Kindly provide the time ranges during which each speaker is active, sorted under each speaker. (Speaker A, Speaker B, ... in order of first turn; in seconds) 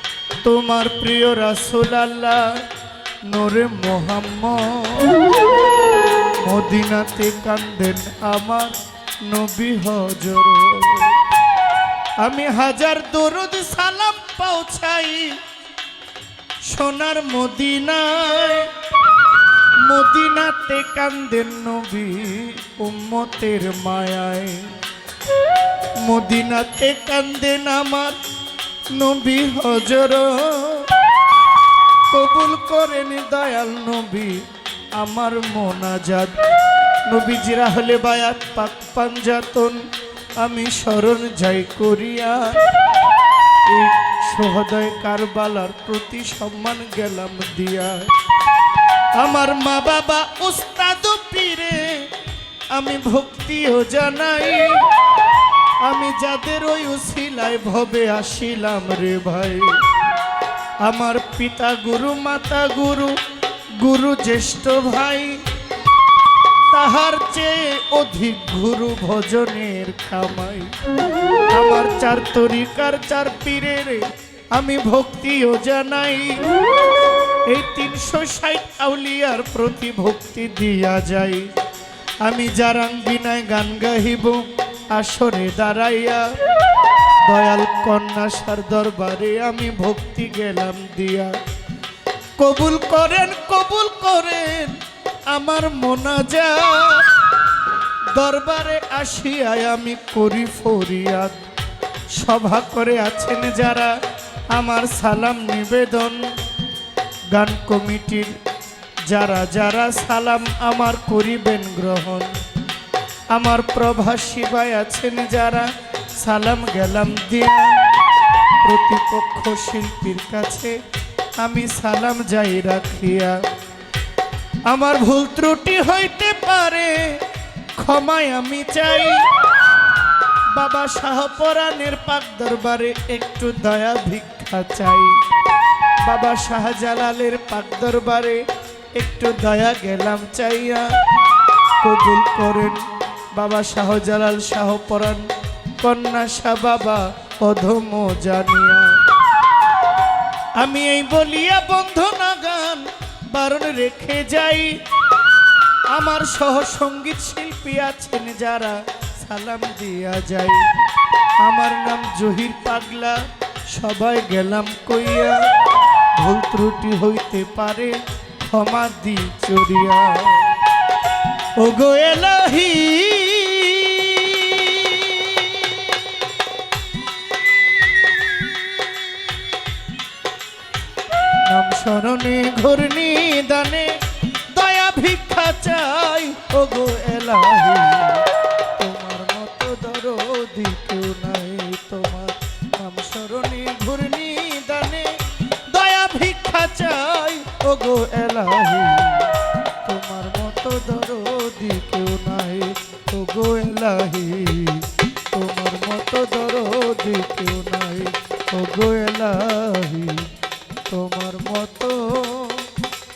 Speaker A: 0.4-2.6, 3.3-5.4, 6.4-11.2, 12.2-15.4, 16.6-18.7, 19.8-24.8, 26.0-28.2, 28.9-30.9, 32.1-34.4, 35.0-36.4, 37.1-39.8, 40.4-42.7, 43.7-48.1, 49.2-52.1, 52.7-54.9, 55.8-59.8, 60.8-63.2, 63.8-65.4, 66.7-70.7, 71.5-76.6, 77.5-81.5, 82.2-86.3, 87.2-91.3, 92.4-94.8, 95.3-97.1, 98.1-101.4, 102.1-103.9, 104.5-106.2, 107.3-108.4, 109.1-112.3, 113.3-117.8, 118.6-120.8, 121.4-123.4, 124.7-129.3, 130.5-135.2, 136.0-138.4, 139.0-140.9, 141.8-149.0, 150.6-154.7, 155.9-160.7, 161.4-163.2, 163.7-165.4, 166.2-170.6, 171.6-176.1, 177.3-179.7, 181.4-195.1, 195.7-210.3, 210.9-212.7